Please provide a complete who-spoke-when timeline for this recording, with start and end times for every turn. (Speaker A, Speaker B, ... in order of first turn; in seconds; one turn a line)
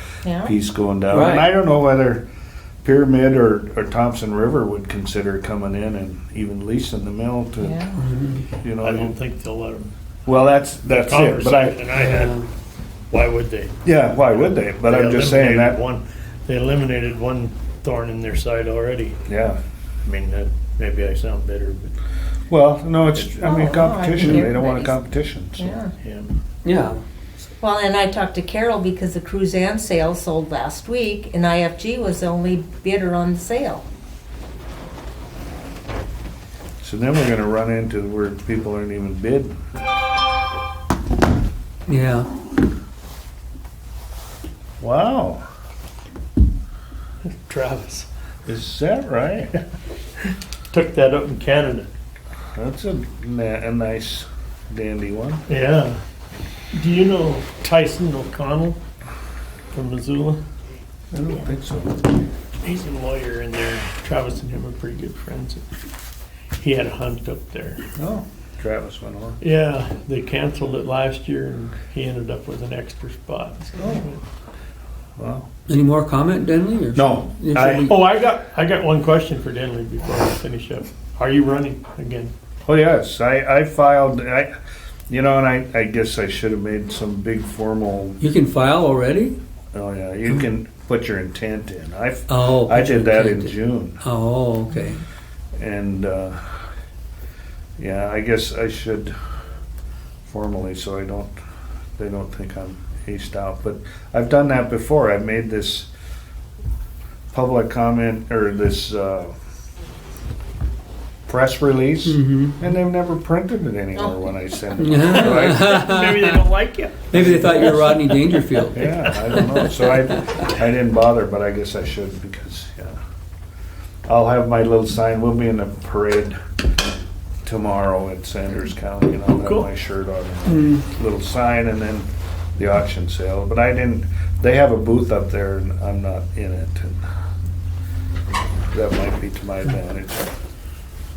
Speaker A: 0.2-0.5
Speaker B: 0.4-2.2
Speaker C: 1.1-1.5
Speaker B: 2.8-7.9
Speaker A: 7.6-8.0
Speaker C: 8.0-8.5
Speaker B: 8.6-9.1
Speaker D: 8.8-9.9
Speaker B: 10.2-11.8
Speaker D: 10.9-12.4
Speaker C: 11.9-12.5
Speaker D: 13.1-13.7
Speaker B: 13.8-15.8
Speaker D: 14.7-19.2
Speaker B: 19.3-19.6
Speaker D: 20.0-21.9
Speaker B: 22.5-25.8
Speaker A: 23.4-25.0
Speaker C: 24.2-24.5
Speaker A: 25.6-25.9
Speaker D: 26.0-26.3
Speaker C: 26.6-27.0
Speaker A: 27.6-33.8
Speaker B: 36.8-39.6
Speaker C: 41.9-42.3
Speaker B: 44.8-45.4
Speaker D: 47.2-48.1
Speaker B: 48.5-49.6
Speaker D: 50.7-51.9
Speaker B: 52.5-55.4
Speaker D: 55.5-56.0
Speaker D: 56.7-58.8
Speaker D: 59.7-60.4
Speaker B: 61.1-62.1
Speaker D: 62.6-65.6
Speaker D: 66.6-67.8
Speaker B: 68.0-69.4
Speaker D: 69.4-74.2
Speaker B: 73.8-74.0
Speaker B: 75.2-75.5
Speaker C: 75.7-78.0
Speaker B: 76.9-77.9
Speaker D: 77.9-82.3
Speaker B: 82.7-84.5
Speaker B: 85.1-88.2
Speaker C: 88.2-89.3
Speaker B: 89.7-94.0
Speaker C: 92.3-95.0
Speaker B: 95.5-96.5
Speaker B: 97.8-99.1
Speaker B: 100.2-101.3
Speaker B: 102.0-105.9
Speaker B: 107.3-109.3
Speaker B: 111.3-115.8
Speaker C: 112.0-112.6
Speaker C: 114.8-116.4
Speaker D: 115.0-118.3
Speaker C: 117.1-119.7
Speaker B: 118.7-123.0
Speaker B: 124.0-126.3
Speaker B: 127.4-137.1
Speaker D: 129.3-129.7
Speaker C: 130.5-130.8
Speaker B: 138.7-140.3